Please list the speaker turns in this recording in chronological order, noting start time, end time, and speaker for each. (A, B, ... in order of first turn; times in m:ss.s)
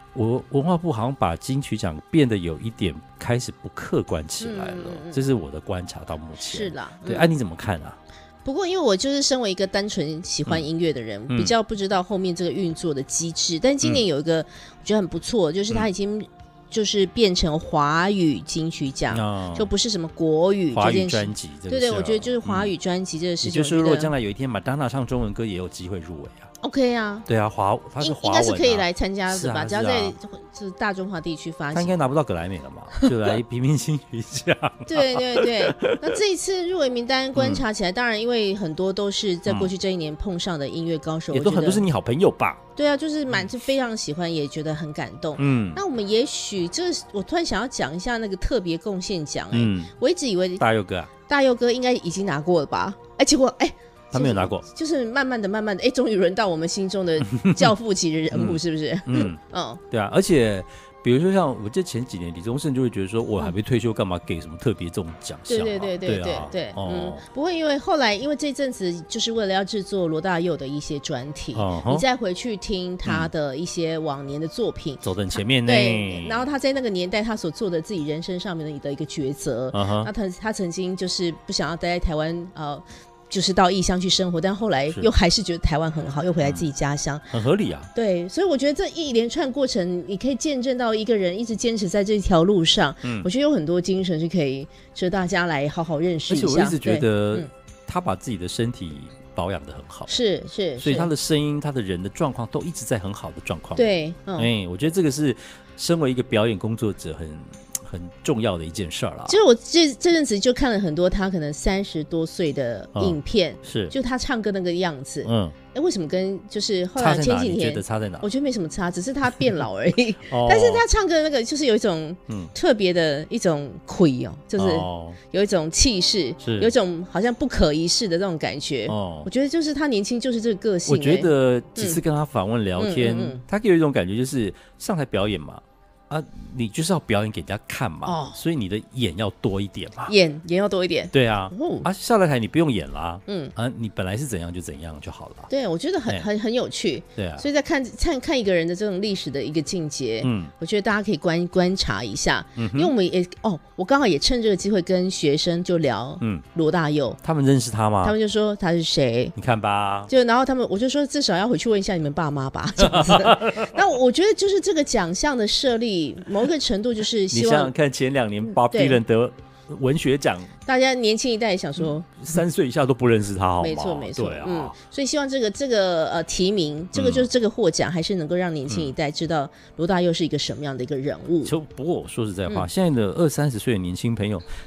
0:00.1-0:08.0 A
0:04.4-0:05.2 B
0:06.4-0:07.3 B
0:08.4-0:24.1 B
0:19.1-0:19.7 A
0:20.7-0:22.7 A
0:23.4-0:26.5 A
0:26.6-0:27.2 B
0:27.2-0:30.1 A
0:28.0-0:32.0 B
0:31.7-0:36.1 A
0:32.9-0:33.3 B
0:34.8-0:41.8 B
0:37.4-0:37.7 A
0:39.4-0:39.7 A
0:41.3-0:42.6 A
0:42.8-0:50.6 B
0:45.4-0:45.8 A
0:49.5-0:49.9 A
0:50.6-0:51.1 A
0:51.3-0:59.8 B
0:54.1-0:54.6 A
0:57.4-0:57.7 A
0:58.3-0:59.4 A
0:59.9-1:07.2 A
1:05.5-1:27.3 B
1:11.5-1:12.0 A
1:13.0-1:13.3 A
1:15.0-1:16.5 A
1:19.7-1:20.1 A
1:27.3-1:27.9 A
1:27.9-1:37.5 B
1:33.0-1:33.3 A
1:36.3-1:40.1 A
1:40.1-1:41.1 B
1:40.8-1:49.4 A
1:43.8-1:44.5 B
1:49.3-2:12.0 B
1:52.9-1:53.9 A
1:55.2-1:55.6 A
1:57.0-1:58.2 A
2:00.3-2:00.8 A
2:02.3-2:02.5 A
2:04.6-2:05.2 A
2:06.4-2:06.7 A
2:08.9-2:09.3 A
2:10.9-2:20.1 A
2:12.8-2:13.4 B
2:18.0-2:18.4 B
2:20.1-2:21.9 B
2:21.1-2:25.5 A
2:23.3-2:23.5 B
2:25.5-2:37.2 B
2:27.2-2:27.4 A
2:30.2-2:30.5 A
2:32.6-2:32.9 A
2:37.2-2:38.2 A
2:38.0-2:39.3 B
2:39.3-2:40.1 A
2:40.1-2:47.7 B
2:42.8-2:43.8 A
2:47.3-2:50.5 A
2:48.6-2:49.0 B
2:50.6-2:52.1 B
2:51.8-2:54.8 A
2:53.6-3:01.5 B
2:56.9-2:57.3 A
2:58.7-2:58.9 A
3:01.4-3:04.4 A